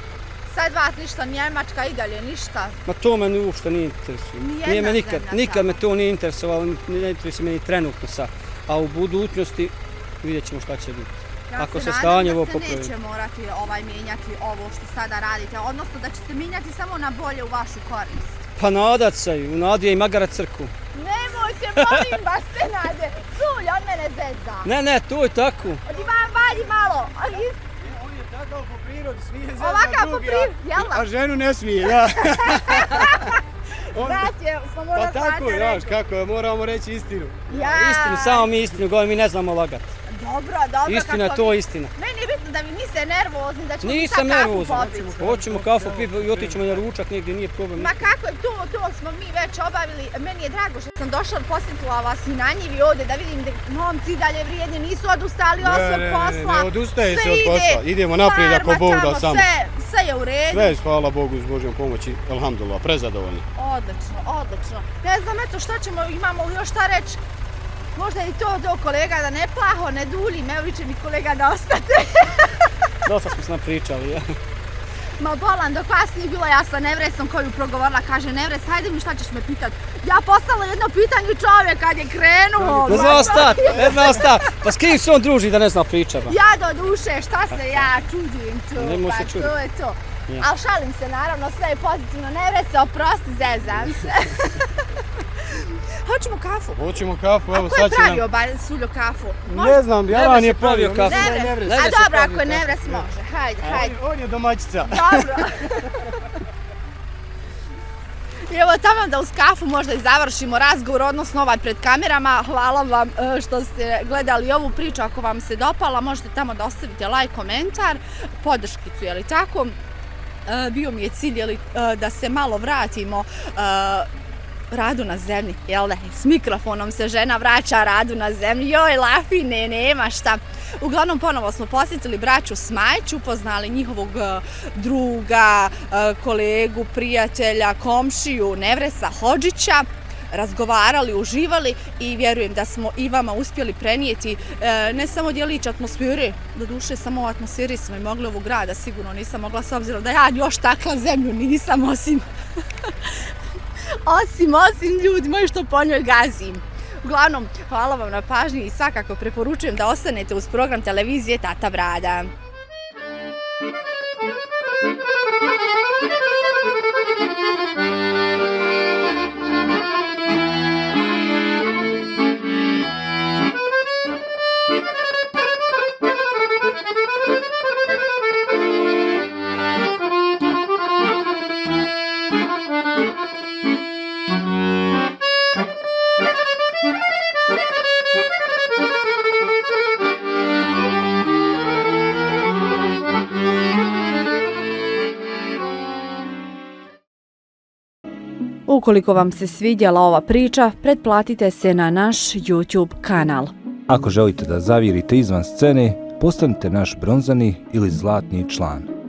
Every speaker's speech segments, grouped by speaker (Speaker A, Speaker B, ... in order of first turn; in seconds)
Speaker A: 0.5-2.8, 4.4-5.7, 11.5-18.4, 20.9-24.7, 25.9-27.6, 29.6-31.1, 32.2-36.0, 37.5-38.5, 40.1-45.2, 47.8-60.8, 63.6-67.2, 68.0-72.7, 75.2-84.3, 86.3-94.9, 95.5-96.8, 97.5-99.8, 101.0-104.0, 104.9-106.2, 108.5-119.8, 120.5-124.1, 124.7-152.3, 154.0-162.3, 198.7-203.5
Speaker B: 2.9-12.9, 18.6-20.7, 24.6-25.8, 37.6-39.9, 40.9-41.9, 43.8-48.1, 73.0-74.3, 82.8-86.3, 88.8-89.5, 100.1-102.6
Speaker C: 27.8-33.3, 33.9-34.3, 35.0-37.8, 45.2-46.9, 55.6-59.5, 60.5-63.5, 82.6-84.1, 96.8-98.2, 99.5-102.0, 103.6-105.6
Speaker D: 203.9-208.9